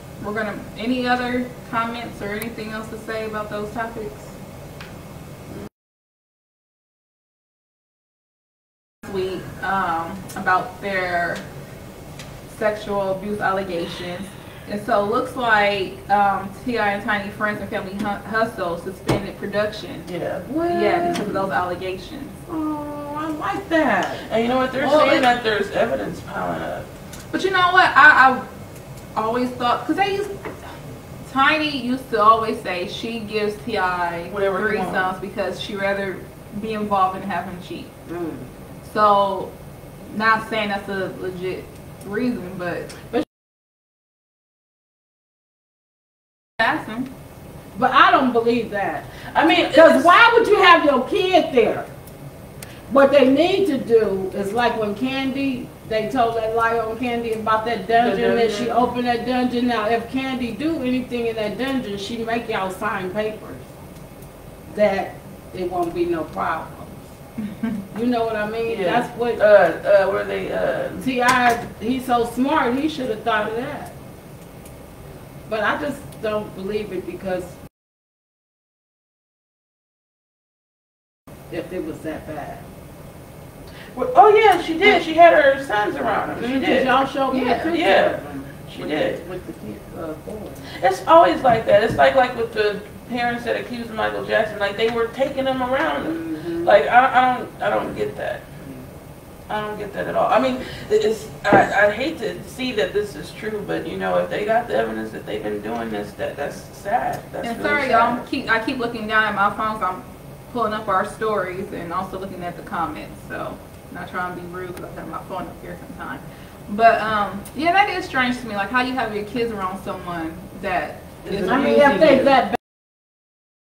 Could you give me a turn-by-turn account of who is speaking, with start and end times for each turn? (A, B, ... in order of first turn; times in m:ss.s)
0:00.2-0:04.3 A
0:09.0-0:11.4 A
0:12.5-0:20.1 A
0:20.1-0:20.5 B
0:20.4-0:21.3 C
0:20.6-0:22.4 A
0:21.0-0:21.4 B
0:22.5-0:24.2 C
0:24.2-0:26.9 B
0:24.8-0:25.3 C
0:27.3-0:28.5 A
0:29.2-0:30.4 A
0:31.2-0:37.9 A
0:34.3-0:35.1 B
0:38.1-0:38.5 C
0:38.8-0:39.5 A
0:40.0-0:42.9 A
0:46.6-0:47.1 A
0:47.7-0:49.1 C
0:49.3-0:50.2 B
0:49.7-0:51.9 C
0:52.9-1:03.7 C
0:58.0-0:58.9 B
1:04.7-1:07.1 C
1:07.9-1:09.4 C
1:08.6-1:11.1 B
1:11.0-1:13.9 C
1:15.5-1:17.6 C
1:21.5-1:22.6 C
1:23.9-1:26.9 B
1:26.4-1:30.7 C
1:27.3-1:27.7 A
1:27.6-1:28.1 B
1:28.7-1:29.2 B
1:30.7-1:38.4 B
1:36.0-1:36.8 C
1:39.5-1:48.2 B
1:47.4-2:01.1 A
2:01.2-2:02.4 B
2:01.3-2:02.6 C